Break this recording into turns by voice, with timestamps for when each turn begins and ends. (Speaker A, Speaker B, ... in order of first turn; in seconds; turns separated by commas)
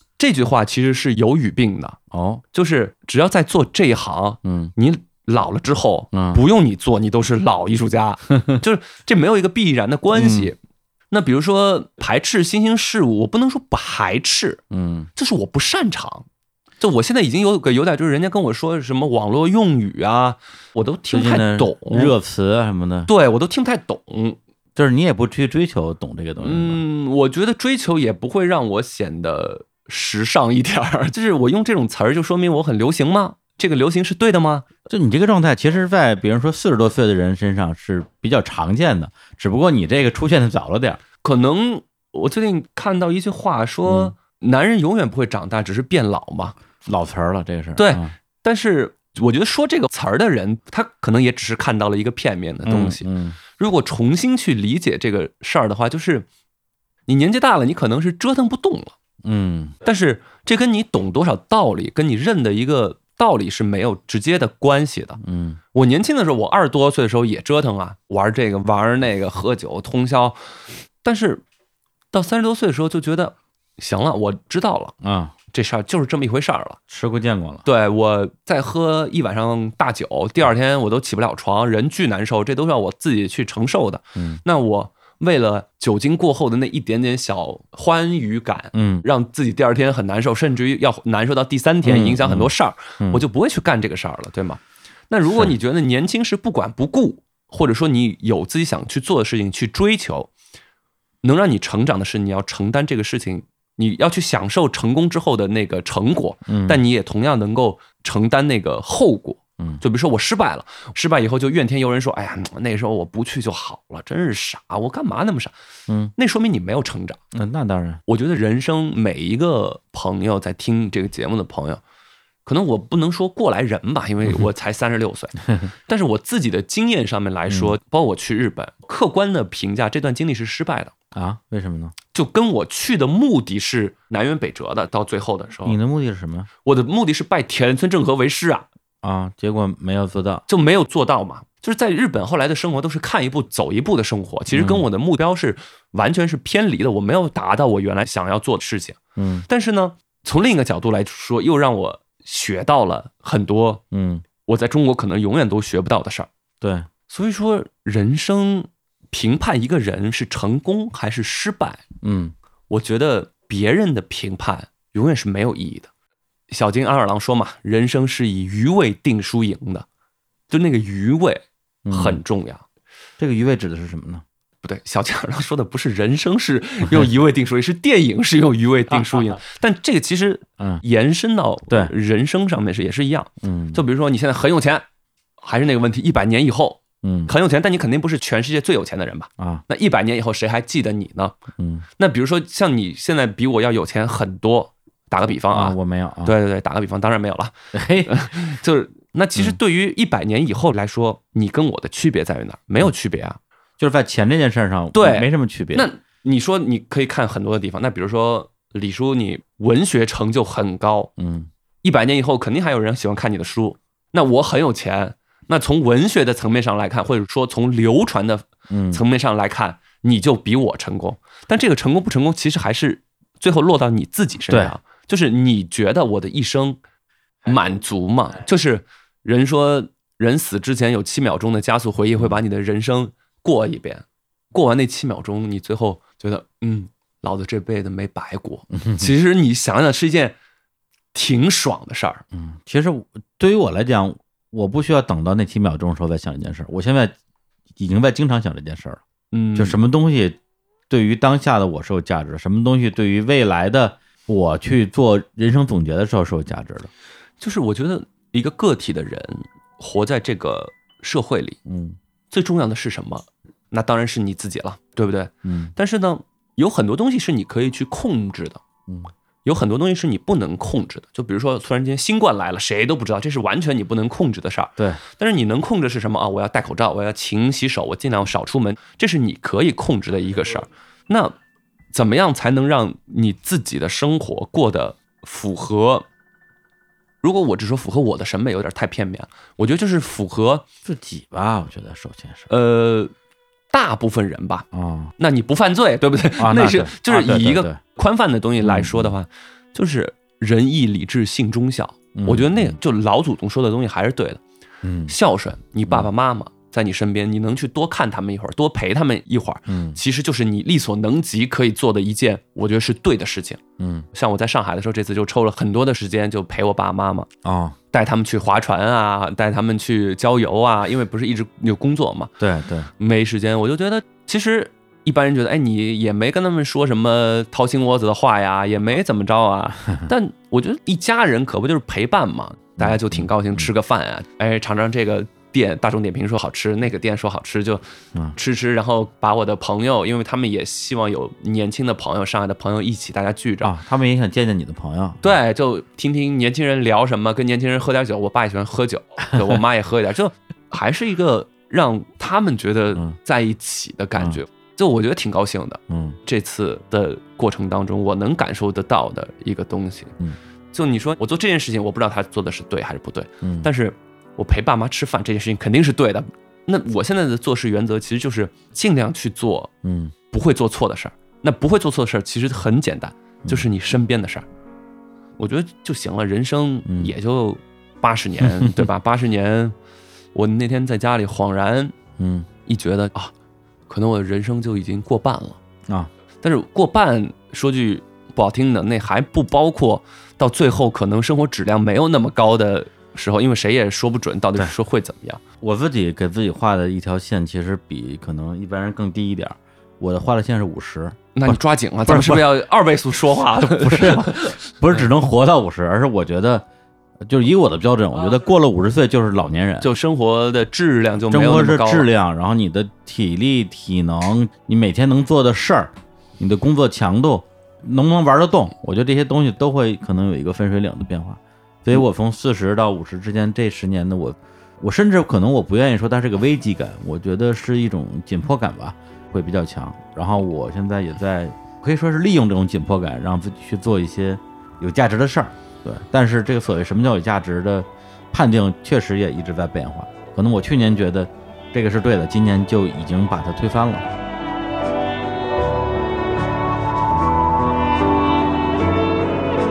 Speaker A: 0.2-2.0, Speaker B: 2.1-2.4, Speaker A: 2.5-10.6, Speaker B: 4.4-4.7, Speaker B: 6.1-6.4, Speaker B: 10.1-10.5, Speaker A: 11.1-14.6, Speaker B: 14.7-15.1, Speaker A: 15.1-16.2, Speaker A: 16.8-22.1, Speaker B: 21.1-23.1, Speaker A: 23.1-24.4, Speaker B: 24.8-26.8, Speaker A: 26.4-34.6, Speaker B: 34.9-41.0, Speaker A: 41.2-46.6, Speaker B: 43.9-44.1, Speaker B: 46.8-48.1, Speaker A: 47.8-56.2, Speaker B: 52.6-53.4, Speaker A: 57.1-59.0, Speaker B: 59.2-59.7, Speaker A: 59.8-65.2, Speaker B: 65.2-65.6, Speaker A: 65.7-70.4, Speaker A: 71.0-71.4, Speaker A: 72.1-74.9, Speaker B: 75.0-75.3, Speaker A: 75.5-76.8, Speaker B: 76.9-77.6, Speaker A: 77.6-100.3, Speaker B: 84.2-84.4, Speaker B: 88.7-89.0, Speaker B: 91.8-93.2, Speaker A: 101.2-115.5, Speaker B: 106.5-106.8, Speaker B: 115.9-116.1, Speaker A: 116.2-117.2, Speaker B: 117.3-118.0, Speaker A: 118.1-121.8, Speaker A: 122.4-130.9, Speaker B: 127.5-127.7, Speaker B: 131.1-131.9, Speaker A: 132.1-135.8, Speaker B: 135.6-136.5, Speaker A: 136.6-138.7, Speaker B: 139.0-140.4, Speaker A: 140.5-153.8, Speaker B: 144.5-144.8, Speaker B: 149.2-149.4, Speaker B: 153.9-154.2, Speaker A: 154.4-156.3, Speaker B: 156.6-156.9, Speaker A: 157.1-161.8, Speaker B: 162.0-162.3, Speaker A: 162.7-165.9, Speaker A: 166.5-169.8, Speaker A: 170.5-172.6, Speaker B: 171.8-172.2, Speaker B: 173.2-174.2, Speaker A: 174.6-184.8, Speaker B: 183.4-183.8, Speaker A: 185.4-191.4, Speaker B: 187.0-187.3, Speaker B: 191.6-191.8, Speaker A: 192.0-203.4, Speaker B: 195.5-196.3, Speaker B: 197.7-198.2, Speaker B: 203.8-205.9, Speaker A: 204.9-211.1, Speaker B: 211.2-211.5, Speaker A: 211.8-226.8, Speaker B: 218.7-219.0, Speaker B: 224.5-224.7, Speaker A: 227.4-240.3, Speaker B: 238.8-239.1, Speaker A: 241.1-242.2, Speaker B: 242.3-247.1, Speaker B: 247.8-249.0, Speaker A: 249.3-249.8, Speaker B: 249.5-250.4, Speaker B: 250.9-256.9, Speaker A: 257.4-261.6, Speaker B: 261.6-262.0, Speaker A: 262.3-268.6, Speaker B: 265.4-265.7, Speaker A: 269.4-281.3, Speaker A: 281.9-286.1, Speaker A: 287.2-290.6, Speaker B: 290.8-292.5, Speaker A: 292.5-293.1, Speaker A: 293.7-294.7, Speaker B: 294.7-295.1, Speaker A: 295.2-304.4, Speaker B: 296.4-297.8, Speaker B: 298.6-299.1, Speaker B: 302.1-302.8, Speaker B: 304.8-305.1, Speaker A: 305.1-313.6, Speaker B: 309.7-310.0, Speaker B: 313.8-314.1, Speaker A: 314.1-317.3, Speaker B: 317.4-317.8, Speaker A: 317.9-322.3, Speaker B: 322.4-322.9, Speaker A: 323.0-337.8, Speaker B: 332.8-333.7, Speaker A: 338.3-343.7, Speaker B: 343.6-345.2, Speaker A: 345.2-360.1, Speaker B: 355.9-356.2, Speaker A: 360.7-369.7, Speaker B: 363.4-363.7, Speaker B: 369.8-370.1, Speaker A: 370.3-374.4, Speaker A: 375.4-379.7, Speaker B: 376.9-377.1, Speaker B: 378.4-378.9, Speaker A: 380.3-381.9, Speaker B: 382.2-382.5, Speaker A: 382.6-383.3, Speaker A: 383.9-385.6, Speaker A: 386.4-395.4, Speaker B: 395.6-402.5, Speaker A: 401.3-405.0, Speaker B: 403.6-406.6, Speaker B: 407.2-409.9, Speaker A: 409.8-412.1, Speaker B: 411.3-444.1